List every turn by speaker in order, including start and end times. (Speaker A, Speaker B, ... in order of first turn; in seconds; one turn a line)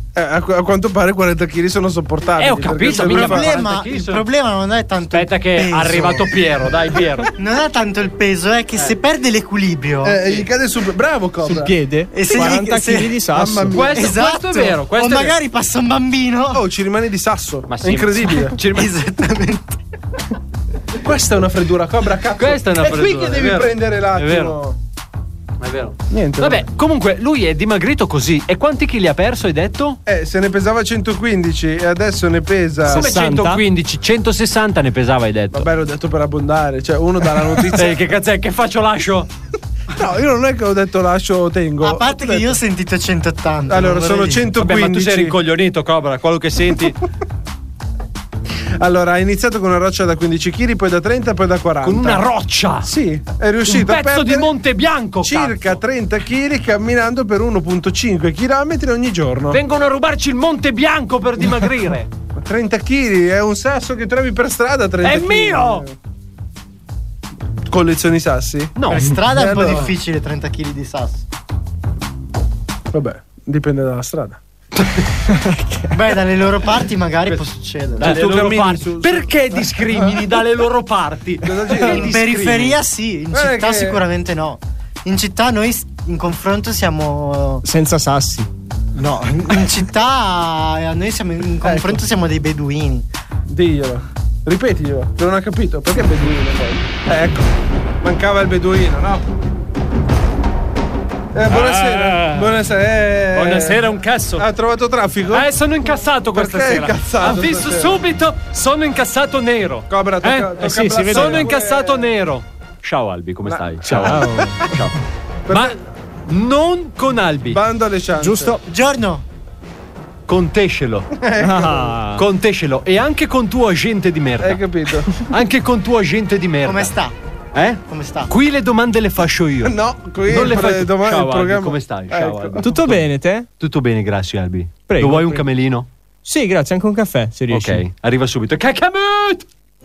Speaker A: 0.1-3.5
Speaker B: 2.4-4.2
Speaker C: 2.9-6.3
Speaker B: 5.1-7.3
Speaker C: 7.3-10.2
Speaker A: 10.0-11.7
Speaker D: 11.4-13.8
Speaker C: 12.1-13.2
Speaker A: 12.3-12.6
Speaker A: 13.3-14.0
Speaker B: 13.7-15.4
Speaker C: 13.9-16.6
Speaker A: 16.5-18.5
Speaker B: 17.7-18.9
Speaker C: 18.7-19.8
Speaker A: 21.0-24.8
Speaker B: 22.4-24.6
Speaker B: 25.6-30.0
Speaker A: 26.1-26.7
Speaker A: 30.1-33.1
Speaker B: 32.9-35.7
Speaker D: 32.9-33.6
Speaker A: 35.5-38.0
Speaker B: 37.7-39.3
Speaker A: 39.9-42.6
Speaker C: 41.8-44.5
Speaker A: 43.7-45.4
Speaker B: 44.6-47.0
Speaker A: 48.8-52.2
Speaker B: 51.8-52.9
Speaker A: 52.8-54.5
Speaker B: 53.6-55.8
Speaker A: 55.2-59.6
Speaker B: 59.5-62.1
Speaker A: 62.4-65.9
Speaker B: 65.0-65.8
Speaker A: 67.7-69.9
Speaker B: 68.8-69.2
Speaker C: 68.9-71.2
Speaker A: 72.9-74.4
Speaker D: 75.5-75.9
Speaker C: 75.9-78.2
Speaker A: 78.0-80.2
Speaker B: 78.0-82.8
Speaker A: 81.4-82.1
Speaker C: 81.8-87.6
Speaker A: 83.3-84.0
Speaker D: 87.6-88.5
Speaker C: 88.9-93.0
Speaker A: 91.6-92.0
Speaker A: 93.5-97.5
Speaker A: 98.0-99.2
Speaker A: 101.3-105.5
Speaker B: 101.5-102.5
Speaker B: 103.3-104.5
Speaker B: 105.3-114.9
Speaker A: 106.3-108.0
Speaker A: 109.9-112.1
Speaker D: 110.6-111.5
Speaker A: 113.5-114.4
Speaker D: 113.8-114.6
Speaker A: 115.5-115.7
Speaker B: 115.5-115.8
Speaker B: 116.3-117.6
Speaker A: 117.5-118.6
Speaker D: 118.2-118.6
Speaker C: 118.7-119.2
Speaker B: 120.3-121.1
Speaker A: 121.2-122.0
Speaker D: 121.4-122.2
Speaker B: 122.2-124.6
Speaker A: 124.4-125.1
Speaker B: 125.3-126.9
Speaker C: 126.6-127.1
Speaker B: 127.5-129.7
Speaker C: 127.9-128.3
Speaker A: 129.6-132.7
Speaker B: 130.3-135.9
Speaker D: 132.6-133.5
Speaker D: 134.9-135.4
Speaker D: 136.2-137.8
Speaker B: 137.5-139.4